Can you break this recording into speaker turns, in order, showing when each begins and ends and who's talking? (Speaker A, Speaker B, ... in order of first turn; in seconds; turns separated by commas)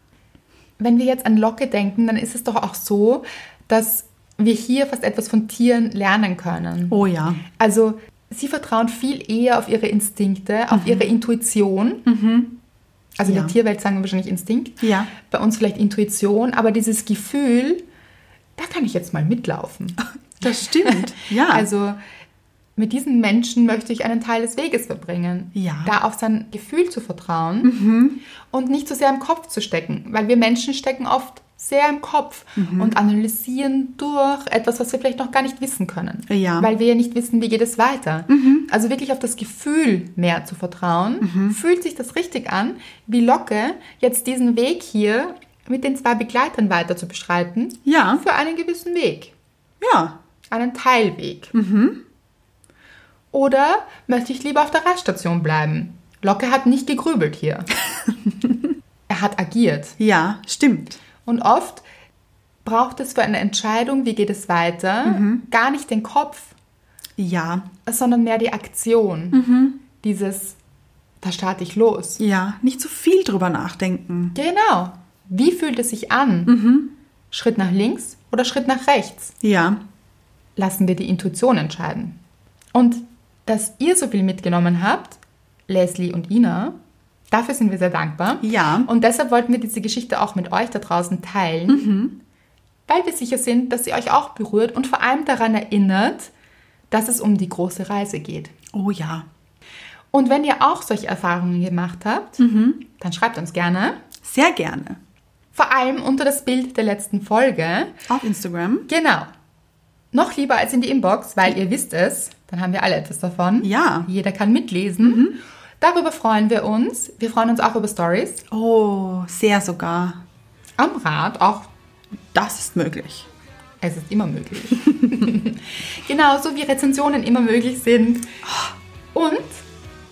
Speaker A: 0.8-12.1, Speaker B: 6.9-7.4, Speaker B: 10.7-11.1, Speaker B: 12.1-12.5, Speaker A: 13.2-17.8, Speaker B: 13.3-13.5, Speaker B: 14.8-15.1, Speaker A: 18.6-20.0, Speaker B: 20.4-21.7, Speaker A: 20.8-22.0, Speaker A: 22.8-27.7, Speaker B: 25.6-25.9, Speaker B: 27.6-28.2, Speaker A: 28.5-49.3, Speaker B: 32.6-33.0, Speaker B: 36.3-36.7, Speaker B: 38.3-38.7, Speaker B: 41.2-41.6, Speaker B: 47.9-48.2, Speaker B: 49.8-50.2, Speaker A: 50.5-51.5, Speaker B: 51.5-52.0, Speaker A: 53.3-57.7, Speaker A: 59.1-60.0, Speaker B: 60.0-61.0, Speaker A: 61.2-61.9, Speaker A: 62.6-66.5, Speaker B: 65.0-65.4, Speaker B: 67.2-67.7, Speaker A: 67.9-69.4, Speaker B: 69.3-69.8, Speaker A: 70.0-70.6, Speaker A: 71.2-72.2, Speaker B: 72.2-74.3, Speaker A: 74.3-76.5, Speaker B: 76.5-76.9, Speaker A: 77.3-79.4, Speaker B: 79.4-79.8, Speaker A: 80.6-82.2, Speaker A: 82.7-86.8, Speaker A: 87.3-91.9, Speaker B: 88.4-88.9, Speaker B: 91.7-92.2, Speaker A: 92.9-96.3, Speaker A: 96.9-98.5, Speaker B: 98.7-99.3, Speaker A: 100.1-104.0, Speaker B: 102.4-102.8, Speaker B: 104.2-105.0, Speaker A: 105.5-108.0, Speaker B: 108.1-108.9, Speaker A: 108.9-109.3, Speaker A: 110.1-118.4, Speaker B: 113.6-114.1, Speaker B: 115.0-115.4, Speaker B: 118.5-120.2, Speaker A: 120.8-121.7, Speaker B: 122.3-123.3, Speaker A: 123.8-128.3, Speaker A: 129.1-129.7